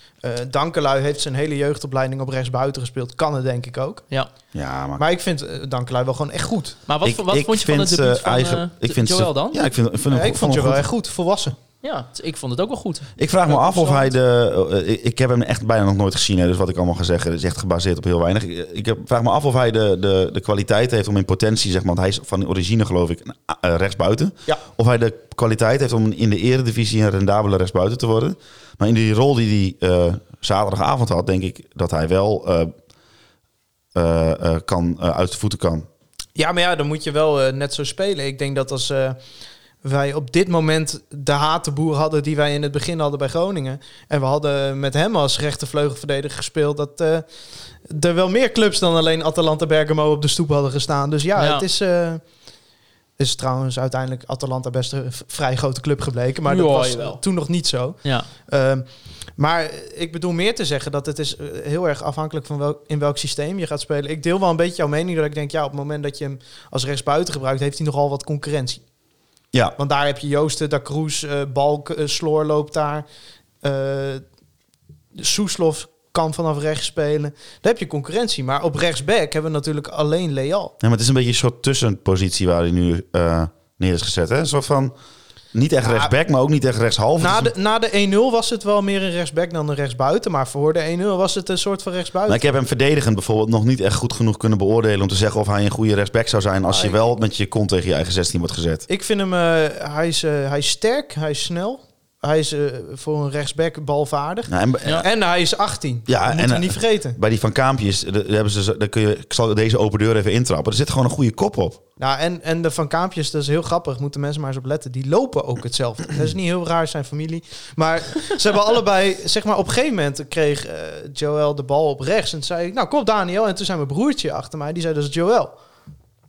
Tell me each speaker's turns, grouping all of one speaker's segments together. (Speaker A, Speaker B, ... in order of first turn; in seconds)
Speaker A: 0.2-4.0, 5.0-6.8, 10.1-11.6, 36.4-39.2, 39.8-47.2, 47.9-52.2, 53.2-58.9, 59.4-68.8, 69.8-73.0, 73.6-74.2, 75.2-80.7, 85.8-86.1, 87.2-92.4, 96.7-97.0, 98.9-107.2, 112.0-125.5
Speaker B: 4.5-5.0, 7.0-10.8, 13.2-32.7, 34.0-35.9, 80.8-84.9, 85.5-87.5, 92.3-98.8, 104.5-105.1, 106.1-111.8
Speaker C: 6.9-9.7, 11.8-14.1, 51.4-51.6, 56.5-57.2